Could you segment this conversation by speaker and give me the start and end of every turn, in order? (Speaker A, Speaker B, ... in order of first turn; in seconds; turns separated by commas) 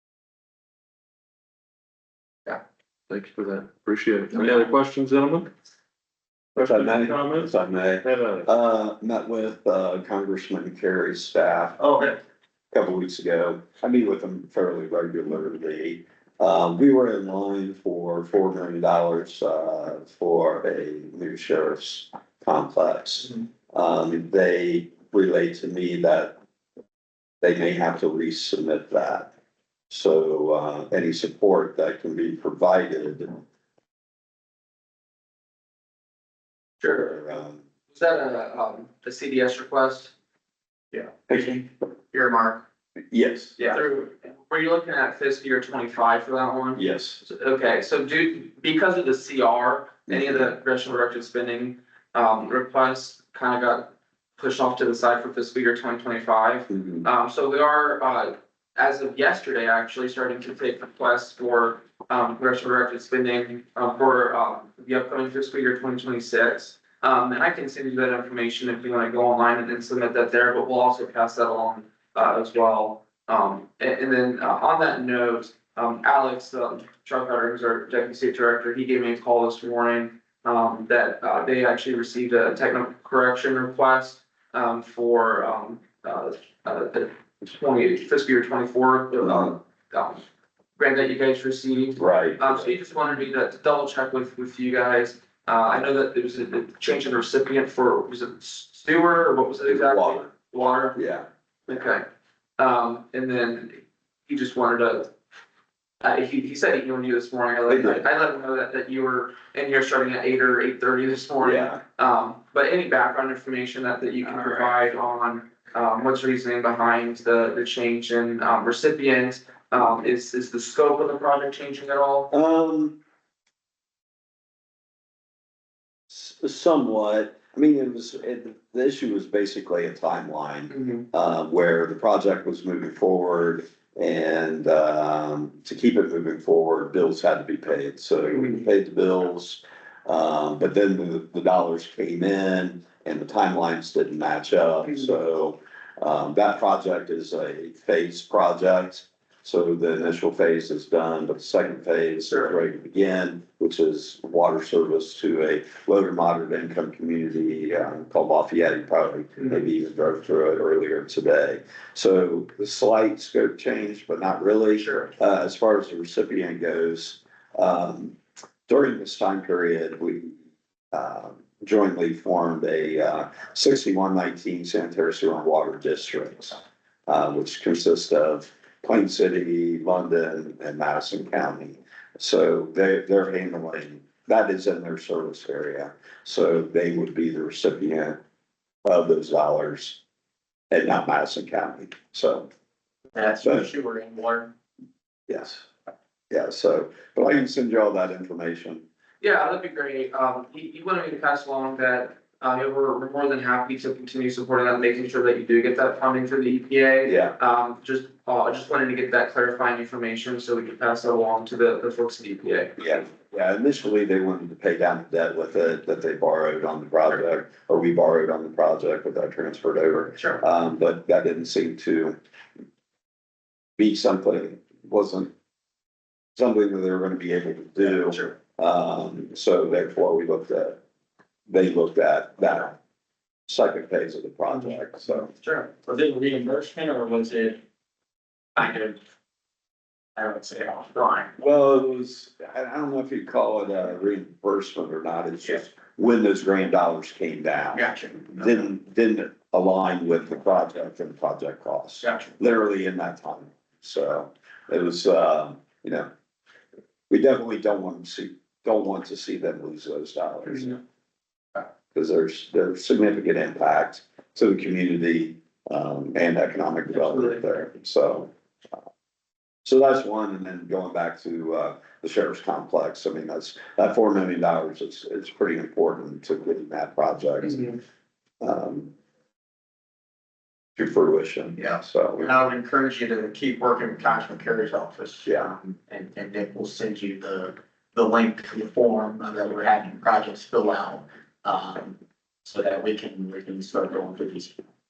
Speaker A: 3.1-5.5, Speaker A: 6.5-7.5, Speaker B: 6.6-11.8, Speaker A: 8.0-8.5, Speaker B: 12.7-26.4, Speaker B: 27.4-29.3, Speaker B: 29.9-33.4, Speaker C: 36.8-37.1, Speaker B: 36.9-37.6, Speaker C: 37.9-40.1, Speaker B: 41.3-41.7, Speaker D: 42.1-42.6, Speaker B: 43.1-43.6, Speaker D: 43.6-43.8, Speaker C: 43.7-90.2, Speaker B: 46.7-47.2, Speaker B: 50.1-50.5, Speaker B: 56.7-57.0, Speaker B: 89.2-89.5, Speaker C: 90.8-101.0, Speaker B: 92.0-92.7, Speaker B: 99.7-100.3, Speaker B: 100.9-101.3, Speaker C: 101.7-102.0, Speaker C: 102.6-105.1, Speaker C: 106.0-122.3, Speaker B: 107.7-108.0, Speaker B: 111.4-111.8, Speaker B: 122.3-123.0, Speaker B: 126.1-168.2, Speaker C: 130.7-131.0, Speaker C: 138.3-138.6, Speaker B: 168.7-170.3, Speaker B: 170.9-188.2, Speaker B: 188.8-190.0, Speaker B: 190.7-192.5, Speaker D: 193.1-194.5, Speaker B: 195.3-195.7, Speaker B: 196.3-198.8, Speaker C: 199.2-213.1, Speaker B: 207.0-207.3, Speaker B: 212.8-222.2, Speaker B: 223.8-225.3, Speaker B: 226.3-230.8, Speaker B: 231.5-232.8, Speaker B: 233.5-235.3, Speaker D: 235.3-237.6, Speaker D: 238.6-239.0, Speaker D: 240.2-241.3, Speaker B: 241.4-256.1, Speaker D: 247.7-248.7, Speaker B: 257.1-260.8, Speaker B: 261.9-268.3, Speaker B: 269.6-277.8, Speaker B: 278.4-278.9, Speaker B: 280.8-282.3, Speaker D: 281.6-294.6, Speaker B: 285.2-285.5